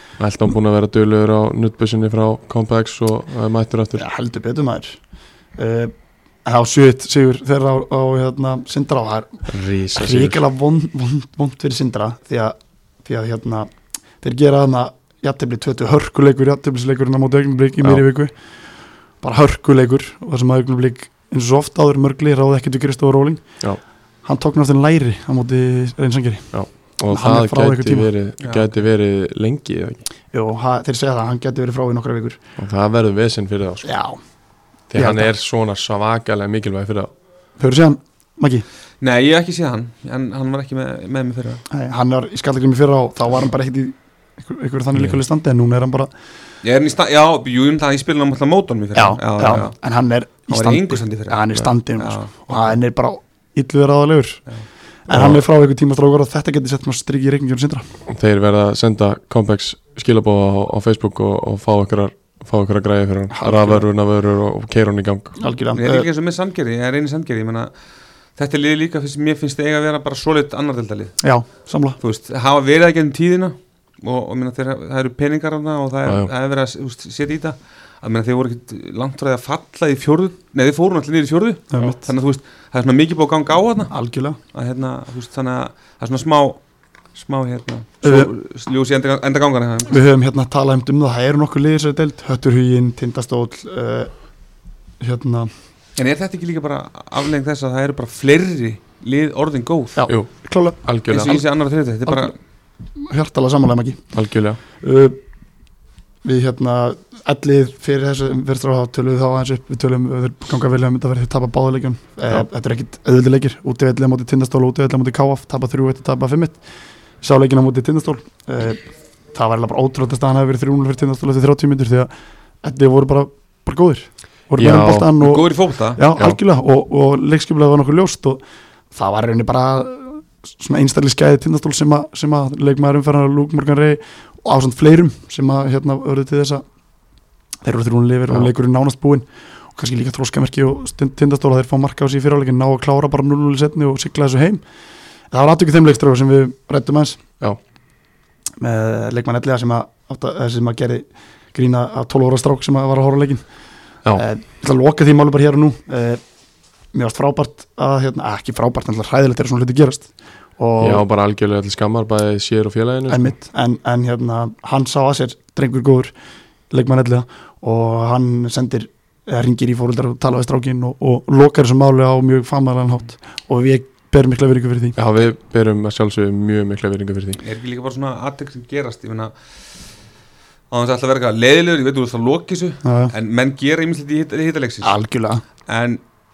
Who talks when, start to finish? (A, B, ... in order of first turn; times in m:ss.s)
0:00.2-0:04.0 A
0:04.0-0:05.0 B
0:05.6-0:05.9 B
0:06.4-0:13.7 B
0:09.5-0:10.4 A
0:14.2-0:18.3 B
0:19.2-0:23.4 B
0:24.2-0:26.5 B
0:26.5-0:30.0 A
0:27.1-0:28.1 B
0:28.4-0:28.7 C
0:30.3-0:32.4 B
0:32.6-0:33.9 A
0:33.8-0:34.2 B
0:34.9-0:37.1 A
0:35.0-0:35.3 B
0:37.6-0:38.6 B
0:39.0-0:41.6 C
0:41.7-0:46.1 B
0:46.6-0:49.8 C
0:49.0-0:54.4 B
0:50.5-0:52.7 C
0:55.1-0:57.8 B
0:55.1-0:55.4 A
0:58.1-1:05.4 A
1:03.3-1:03.8 B
1:05.4-1:06.1 B
1:05.8-1:07.7 C
1:08.4-1:11.2 C
1:11.2-1:12.0 B
1:12.0-1:23.9 C
1:16.1-1:16.3 A
1:21.7-1:22.1 B
1:23.9-1:24.4 B
1:24.5-1:26.6 C
1:27.1-1:30.0 C
1:28.0-1:28.3 B
1:29.9-1:34.1 B
1:35.0-1:35.5 B
1:36.0-1:40.0 C
1:40.0-1:40.8 B
1:40.8-1:41.4 A
1:41.1-1:42.3 C
1:43.0-1:44.0 B
1:44.1-1:44.6 A
1:44.8-1:45.2 B
1:46.2-1:56.6 B
1:57.2-2:02.1 B
2:02.6-2:08.4 B
2:04.6-2:05.1 A
2:05.2-2:06.0 C
2:08.9-2:16.6 B
2:17.6-2:24.6 B
2:25.3-2:27.2 B
2:28.6-2:33.4 B
2:34.1-2:36.2 B
2:36.9-2:41.0 B
2:40.8-2:43.4 A
2:43.1-2:46.1 B
2:46.7-2:55.0 B
2:55.0-2:57.4 A
2:57.4-2:59.3 C
3:00.7-3:04.9 C
3:02.8-3:03.1 B
3:04.8-3:05.4 B
3:05.7-3:06.0 C